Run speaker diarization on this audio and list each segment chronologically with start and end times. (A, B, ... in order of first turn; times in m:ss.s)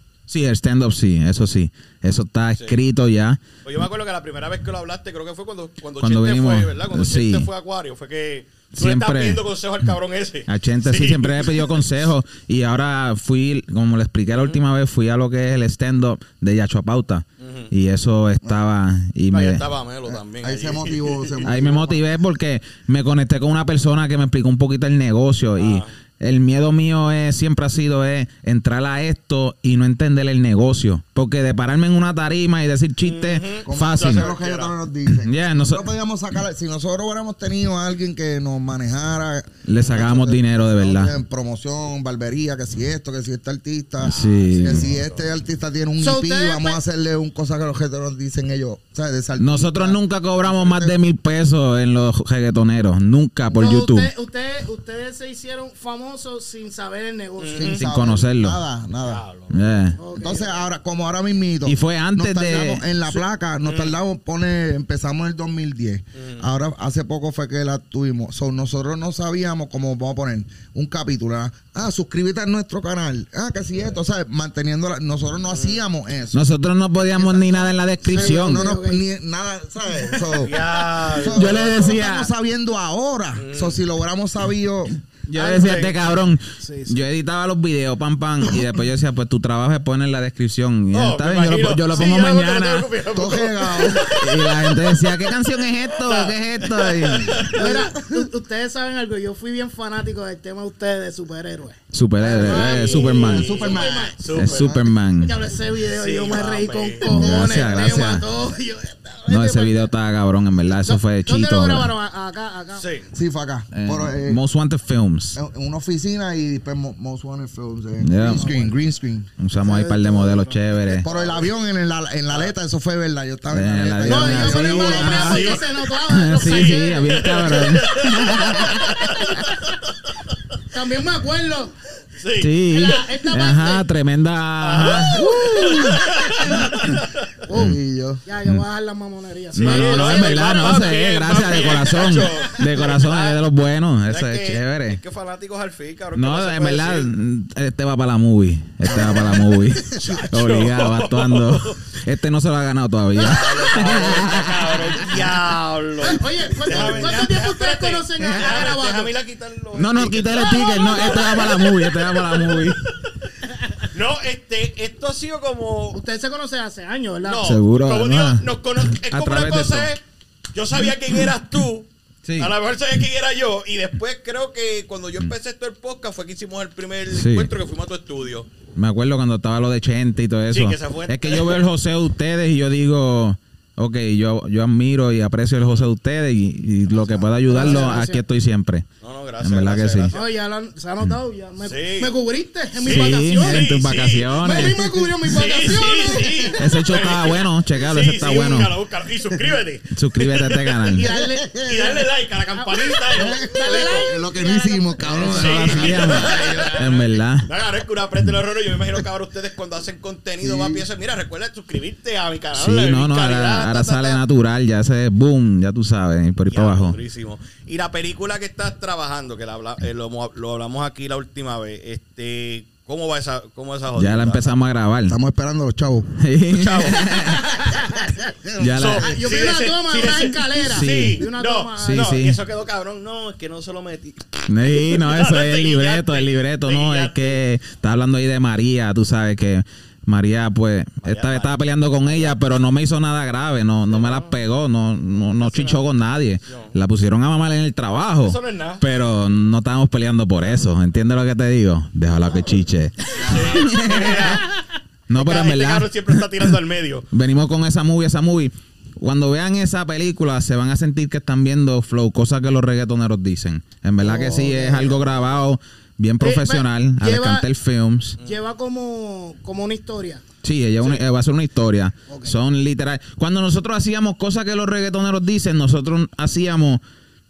0:00.3-0:03.4 A
0:03.6-0:12.0 B
0:06.0-0:07.5 A
0:08.8-0:09.9 A
0:10.5-0:19.6 A
0:17.4-0:17.7 B
0:19.3-0:21.4 B
0:20.1-0:22.1 C
0:21.4-0:34.3 A
0:25.6-0:25.9 B
0:33.0-0:34.8 B
0:33.6-0:51.0 C
0:35.1-0:35.8 A
0:39.7-0:41.2 A
0:44.0-0:44.9 A
0:44.1-0:45.3 B
0:46.0-0:46.8 D
0:49.4-0:54.1 A
0:53.5-0:57.8 D
0:57.4-0:57.9 B
0:57.6-0:59.2 C
0:57.7-0:58.6 A
0:59.0-1:00.0 B
0:59.5-1:00.0 A
1:00.0-1:00.6 D
1:00.1-1:16.5 C
1:01.7-1:02.8 A
1:03.6-1:04.0 B
1:06.2-1:06.5 B
1:15.5-1:15.8 B
1:16.3-1:18.7 A
1:17.2-1:25.0 C
1:18.1-1:19.0 D
1:20.4-1:21.9 B
1:21.3-1:22.3 A
1:23.4-1:23.8 B
1:25.3-1:32.9 A
1:25.4-1:25.9 B
1:26.6-1:27.0 D
1:30.9-1:35.2 B
1:33.1-1:34.2 C
1:34.1-1:37.6 A
1:35.9-1:37.6 B
1:37.5-1:44.2 D
1:37.6-1:38.3 C
1:41.9-1:43.6 A
1:42.3-1:44.9 B
1:42.4-1:44.9 C
1:44.3-1:45.4 A
1:45.2-1:49.9 D
1:46.0-1:47.1 B
1:47.1-1:48.2 A
1:47.2-1:47.6 C
1:49.3-1:51.9 A
1:50.8-1:52.8 D
1:52.8-1:53.1 B
1:53.1-1:54.4 C
1:53.7-1:55.4 A
1:55.4-1:59.3 C
1:58.0-1:58.5 A
1:59.4-2:01.1 A
1:59.6-2:00.6 D
2:00.9-2:05.5 C
2:01.0-2:01.5 B
2:02.3-2:02.5 B
2:03.5-2:09.6 A
2:04.0-2:07.5 D
2:04.9-2:05.6 B
2:06.4-2:10.2 B
2:10.7-2:11.7 D
2:12.2-2:12.5 B
2:12.4-2:16.6 A
2:12.7-2:13.9 D
2:14.6-2:17.2 B
2:15.1-2:16.7 C
2:17.5-2:21.0 D
2:17.5-2:18.2 C
2:19.5-2:25.0 A
2:19.6-2:23.4 B
2:21.6-2:22.4 D
2:24.1-2:27.1 B
2:26.2-2:35.4 A
2:28.8-2:30.3 C
2:28.9-2:29.3 B
2:30.0-2:31.8 B
2:33.2-2:43.1 B
2:33.2-2:34.3 C
2:36.0-2:39.1 D
2:36.6-2:37.3 C
2:38.2-2:38.7 A
2:39.8-2:42.8 A
2:40.3-2:41.9 D
2:43.9-2:46.0 B
2:45.9-2:47.5 D
2:47.2-2:50.0 B
2:47.4-2:49.9 A
2:50.5-2:58.5 B
2:50.8-2:51.3 A
2:52.2-2:52.5 A
2:57.1-2:57.5 A
2:58.8-3:08.9 A
3:00.5-3:01.6 B
3:05.6-3:05.9 B
3:06.9-3:08.0 B
3:07.5-3:08.2 D
3:09.0-3:10.3 B
3:09.4-3:10.1 A
3:10.1-3:13.7 D
3:11.6-3:12.1 B
3:12.8-3:14.4 B
3:12.9-3:14.8 A
3:14.4-3:16.6 D
3:14.5-3:16.4 C
3:15.3-3:20.8 B
3:16.6-3:18.7 A
3:19.9-3:21.1 A
3:20.9-3:26.4 D
3:21.0-3:22.0 C
3:21.6-3:24.1 B
3:23.1-3:26.8 C
3:25.1-3:34.2 B
3:25.2-3:27.5 A
3:30.4-3:30.8 C
3:32.5-3:37.0 A
3:36.5-3:44.6 B
3:44.0-3:45.2 A
3:45.1-3:46.1 C
3:46.2-3:47.6 A
3:46.5-3:47.4 B
3:47.2-3:47.9 D
3:48.1-3:49.0 C
3:48.6-3:49.1 A
3:48.7-3:57.4 B
3:49.0-3:52.1 D
3:50.6-3:51.2 A
3:51.8-3:52.4 A
3:54.5-4:14.4 A
4:01.0-4:02.6 B
4:03.9-4:04.4 B
4:05.4-4:05.9 B
4:06.5-4:06.8 B
4:08.2-4:08.8 B
4:13.2-4:14.4 B
4:13.2-4:13.7 C
4:15.1-4:16.5 A
4:15.2-4:17.1 B
4:17.1-4:28.2 A
4:24.0-4:25.0 C
4:26.2-4:27.5 D
4:28.2-4:30.2 D
4:30.4-4:36.8 A
4:32.1-4:32.4 D